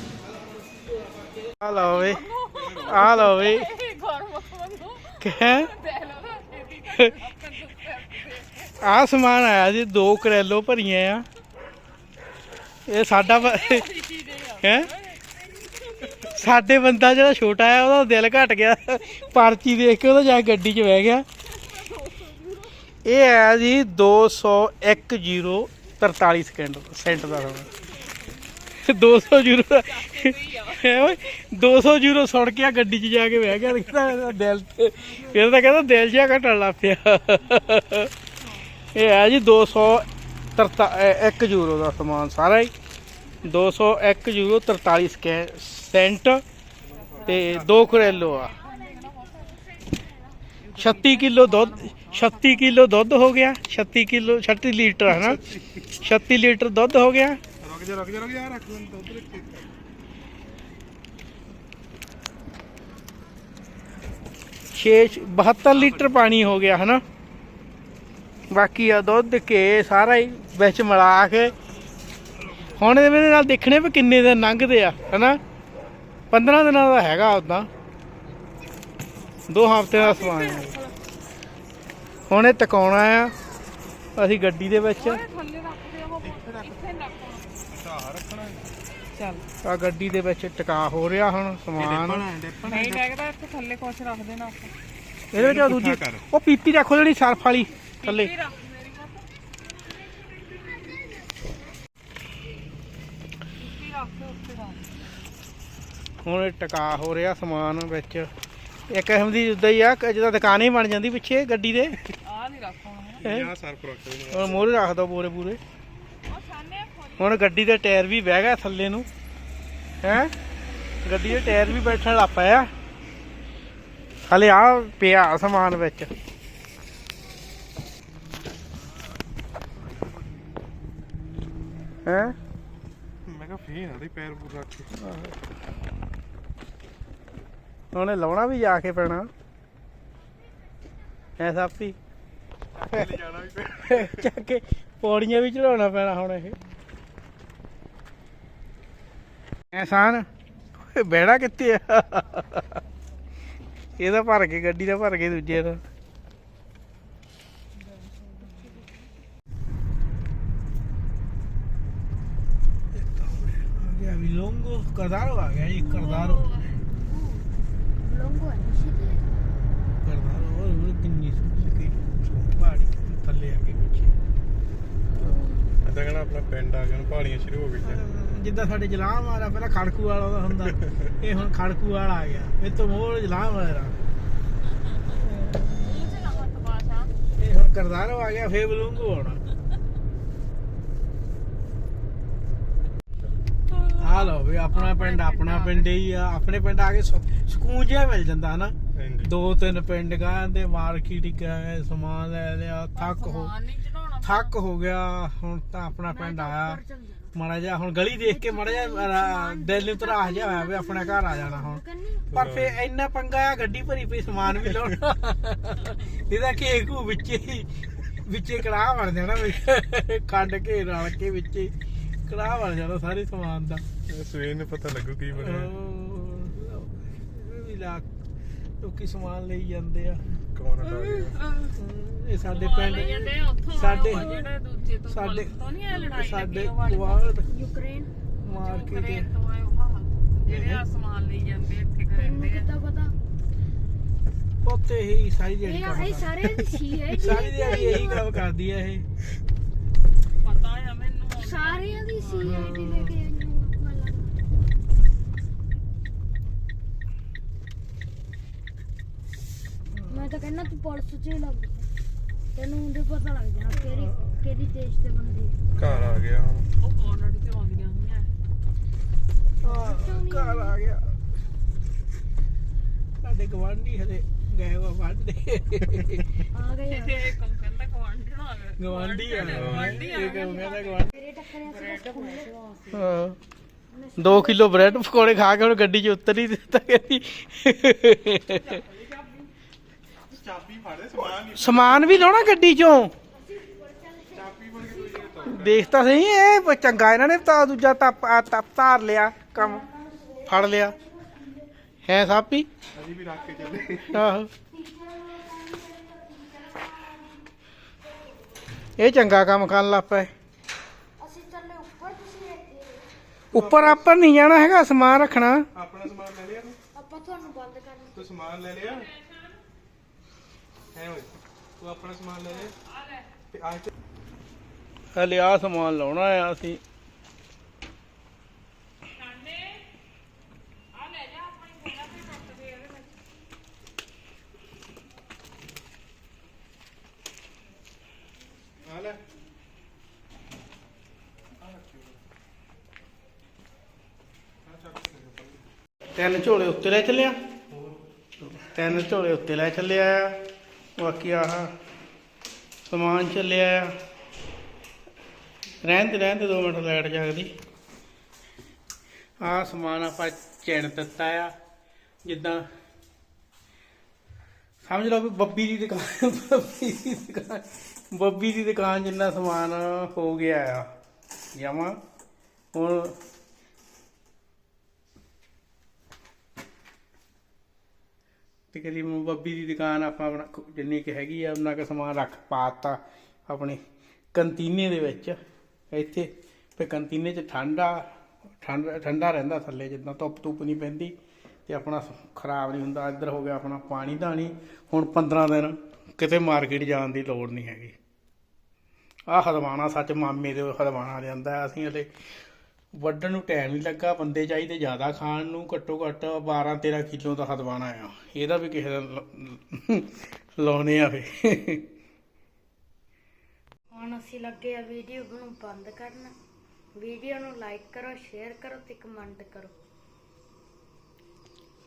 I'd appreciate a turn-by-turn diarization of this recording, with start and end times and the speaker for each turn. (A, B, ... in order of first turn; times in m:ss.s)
0:01.6-0:02.2 A
0:01.7-0:08.7 B
0:02.5-0:03.2 C
0:02.8-0:03.7 A
0:05.2-0:05.7 A
0:08.8-0:11.2 A
0:12.9-0:13.8 A
0:13.1-0:16.3 B
0:14.6-0:14.9 A
0:16.2-0:21.2 A
0:21.4-0:22.8 B
0:23.0-0:27.7 A
0:27.3-0:31.3 B
0:28.8-0:38.1 A
0:38.4-0:38.7 B
0:38.9-0:42.7 A
0:43.4-0:46.4 A
0:46.8-0:48.0 C
0:46.9-0:49.6 B
0:47.2-0:48.5 A
0:50.6-0:52.8 B
0:50.7-0:57.4 A
0:55.1-0:55.8 C
0:57.6-0:59.7 C
1:04.7-1:07.0 A
1:05.7-1:06.2 C
1:08.5-1:11.5 A
1:12.7-1:15.4 A
1:16.3-1:17.7 A
1:19.5-1:20.7 A
1:19.9-1:21.0 B
1:22.3-1:23.3 A
1:24.2-1:25.2 A
1:25.0-1:27.7 B
1:26.2-1:26.8 C
1:27.7-1:28.8 C
1:29.1-1:29.4 B
1:29.6-1:32.2 A
1:31.8-1:33.0 C
1:32.6-1:34.7 B
1:35.3-1:38.3 A
1:35.3-1:36.2 C
1:38.0-1:39.4 B
1:43.6-1:44.9 B
1:46.2-1:48.3 A
1:48.9-1:52.0 A
1:52.2-1:53.3 B
1:53.2-1:54.7 C
1:54.3-1:55.6 A
1:56.2-1:57.5 B
1:57.2-1:59.1 A
2:00.0-2:00.3 A
2:01.0-2:02.7 A
2:04.3-2:06.1 A
2:12.0-2:12.4 A
2:13.2-2:14.9 C
2:15.0-2:15.4 A
2:17.9-2:19.3 A
2:21.4-2:22.0 A
2:22.7-2:24.3 C
2:22.9-2:23.2 A
2:23.8-2:26.6 A
2:29.7-2:30.3 A
2:30.8-2:32.8 A
2:34.0-2:35.8 A
2:38.5-2:38.9 D
2:42.9-2:46.4 A
2:46.0-2:46.4 D
2:46.1-2:46.7 B
2:48.0-2:49.2 D
2:50.0-2:54.1 A
2:55.2-2:55.8 D
2:55.8-2:58.0 C
2:57.8-3:04.0 A
3:00.8-3:01.1 C
3:05.2-3:06.0 A
3:05.8-3:07.1 B
3:07.4-3:09.4 A
3:13.7-3:15.9 B
3:14.0-3:23.5 A
3:18.9-3:19.3 C
3:22.9-3:24.6 B
3:24.2-3:26.8 A
3:26.1-3:27.3 D
3:27.3-3:31.8 A
3:28.2-3:32.3 D
3:32.3-3:32.8 C
3:32.3-3:41.7 A
3:34.6-3:34.9 C
3:42.2-3:43.8 A
3:44.1-3:45.7 C
3:45.3-3:48.0 A
3:48.8-3:50.2 A
3:50.4-3:51.4 C
3:50.8-3:51.8 B
3:51.7-3:54.4 A
3:52.4-3:57.2 B
3:52.8-3:54.5 D
3:55.1-3:57.4 A
3:57.4-3:58.1 D
3:58.4-3:59.3 A
3:58.4-4:02.7 B
4:00.4-4:00.8 A
4:02.1-4:03.1 D
4:04.6-4:06.4 A
4:05.6-4:08.3 D
4:07.1-4:09.0 A
4:10.4-4:12.7 B
4:11.4-4:14.4 D
4:12.4-4:13.2 A
4:20.1-4:21.9 D
4:22.5-4:25.6 D
4:23.9-4:24.3 A
4:25.8-4:26.7 C
4:26.8-4:28.3 B
4:29.6-4:31.1 A
4:29.6-4:30.8 D
4:33.2-4:36.3 A
4:36.5-4:37.3 D
4:36.8-4:42.5 B
4:38.8-4:41.1 A
4:39.5-4:40.2 C
4:41.1-4:43.2 D
4:42.9-4:43.4 A
4:43.9-4:45.5 D
4:44.2-4:48.8 A
4:50.3-4:52.4 C
4:51.5-4:53.1 A
4:53.3-4:55.5 D
4:54.3-4:55.9 C
4:55.4-4:59.8 A
4:59.5-5:01.7 D
5:00.5-5:01.0 A
5:02.0-5:02.7 A
5:02.9-5:04.3 C
5:03.6-5:04.1 D
5:04.1-5:04.5 A
5:04.7-5:07.5 D
5:09.0-5:10.3 A
5:11.2-5:13.1 D
5:13.5-5:14.1 C
5:13.5-5:15.7 A
5:15.7-5:16.8 C
5:16.9-5:18.3 D
5:18.1-5:19.1 C
5:18.8-5:19.6 B
5:20.9-5:22.7 C
5:22.6-5:23.3 B
5:23.5-5:23.9 C
5:25.1-5:26.8 A
5:29.1-5:29.8 B
5:30.9-5:33.2 B
5:38.8-5:39.2 C
5:41.6-5:42.2 C
5:44.6-5:45.6 C
5:46.2-5:47.4 A
5:47.7-5:48.0 C
5:48.6-5:50.4 A
5:51.0-5:51.8 A
5:52.9-5:54.0 A
5:55.8-5:57.5 A
5:59.4-6:01.5 A
6:02.2-6:02.7 A
6:04.8-6:10.9 A
6:11.5-6:12.0 A
6:12.7-6:13.2 A
6:18.7-6:23.8 A
6:24.3-6:25.4 A
6:25.9-6:31.1 A
6:31.7-6:38.0 A
6:39.3-6:42.1 A
6:42.9-6:51.8 A
6:53.9-6:56.3 D
6:57.0-6:59.7 D